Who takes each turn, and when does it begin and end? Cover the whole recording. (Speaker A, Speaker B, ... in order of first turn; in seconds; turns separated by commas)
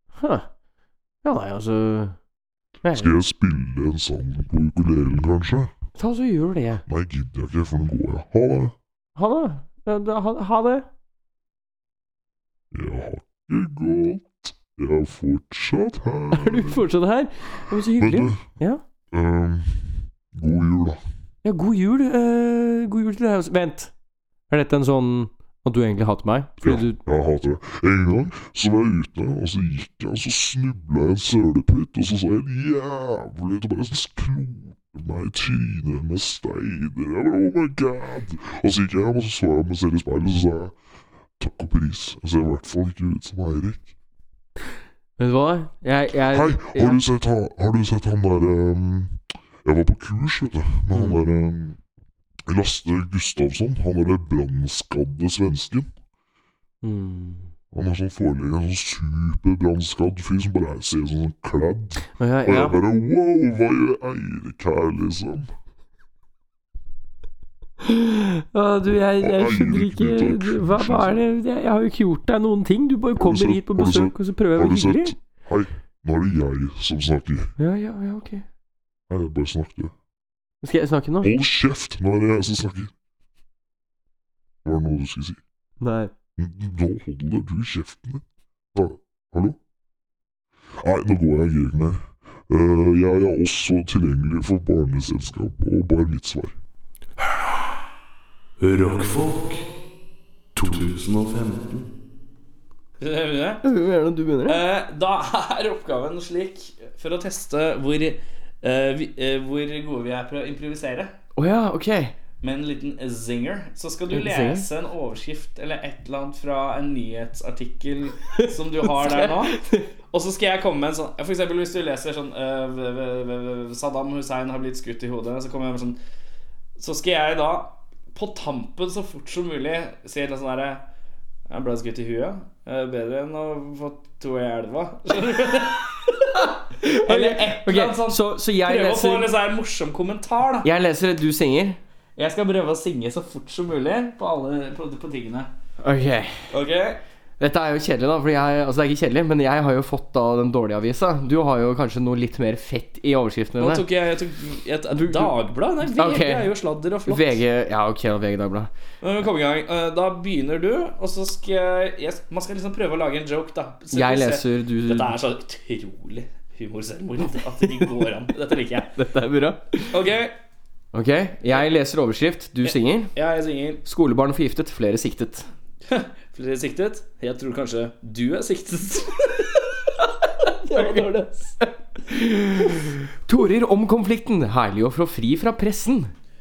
Speaker A: 0.2-0.5, Speaker A: 1.2-2.1, Speaker A: 2.8-3.1, Speaker B: 2.9-5.7, Speaker A: 6.0-6.8, Speaker B: 6.9-8.7, Speaker A: 9.2-10.8, Speaker B: 12.7-16.9, Speaker A: 16.3-18.8, Speaker B: 17.7-18.6, Speaker B: 19.1-21.0, Speaker A: 21.4-23.9, Speaker A: 24.5-27.0, Speaker B: 26.6-40.7, Speaker B: 41.4-43.9, Speaker A: 45.2-47.0, Speaker B: 46.1-51.8, Speaker A: 50.9-51.2, Speaker B: 52.5-55.9, Speaker A: 56.8-57.5, Speaker B: 57.7-65.5, Speaker A: 62.1-62.8, Speaker A: 67.8-75.1, Speaker B: 69.0-71.2, Speaker B: 73.1-77.5, Speaker A: 77.6-78.4, Speaker B: 79.1-79.9, Speaker A: 80.6-81.3, Speaker B: 81.2-82.9, Speaker B: 84.6-85.4, Speaker A: 85.8-86.1, Speaker B: 86.4-88.2, Speaker B: 88.7-89.6, Speaker B: 90.8-96.5, Speaker C: 98.6-99.7, Speaker C: 100.5-101.9, Speaker D: 103.0-103.6, Speaker A: 103.6-104.6, Speaker D: 104.4-111.1, Speaker A: 111.3-112.1, Speaker D: 112.4-119.6, Speaker A: 114.1-114.7, Speaker A: 118.4-119.9, Speaker D: 120.1-126.0, Speaker D: 126.8-130.8, Speaker D: 131.5-135.8, Speaker A: 136.3-139.3, Speaker D: 137.0-140.7, Speaker A: 140.6-141.8, Speaker D: 142.2-145.5, Speaker A: 145.8-146.5, Speaker D: 146.5-147.0, Speaker A: 147.4-153.8, Speaker D: 153.6-157.4, Speaker A: 154.9-158.7, Speaker D: 159.0-168.9, Speaker A: 163.9-165.2, Speaker A: 167.4-168.1, Speaker A: 168.9-170.0, Speaker D: 169.9-170.3, Speaker A: 170.9-173.1, Speaker D: 172.6-173.8, Speaker A: 173.8-175.4, Speaker D: 175.9-179.5, Speaker D: 180.6-181.6, Speaker A: 180.7-186.1